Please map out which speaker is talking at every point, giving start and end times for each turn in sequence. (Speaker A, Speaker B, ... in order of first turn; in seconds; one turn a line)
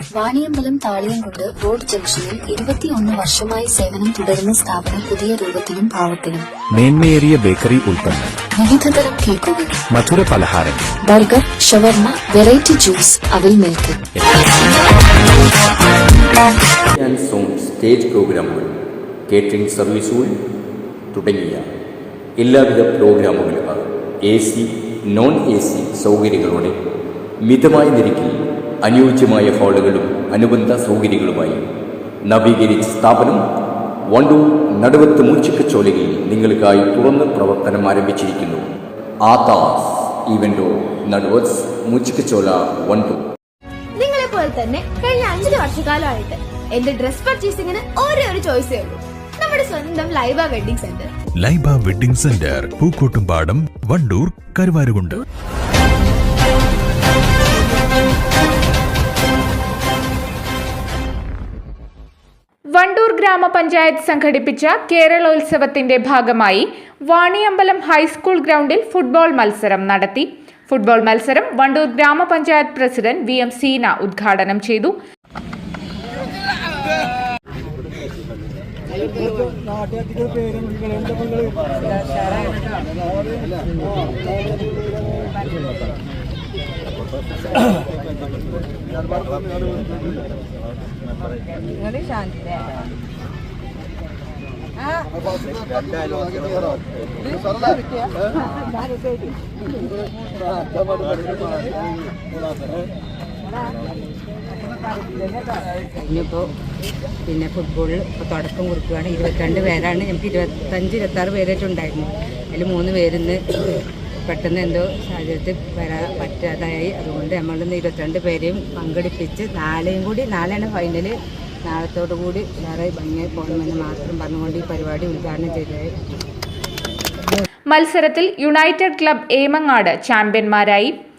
Speaker A: 0.1-6.5
Speaker B: 6.7-8.4
Speaker A: 8.6-9.9
Speaker B: 9.9-10.9
Speaker A: 11.0-14.0
Speaker C: 16.9-20.4
Speaker C: 21.1-21.6
Speaker C: 22.4-26.8
Speaker C: 27.4-31.7
Speaker C: 32.3-33.4
Speaker C: 34.1-38.7
Speaker C: 39.2-43.2
Speaker D: 44.0-51.1
Speaker E: 51.4-55.2
Speaker F: 62.7-75.0
Speaker G: 81.8-82.6
Speaker G: 91.8-92.7
Speaker G: 94.8-95.2
Speaker G: 106.0-106.5
Speaker G: 107.3-125.9
Speaker F: 127.7-130.9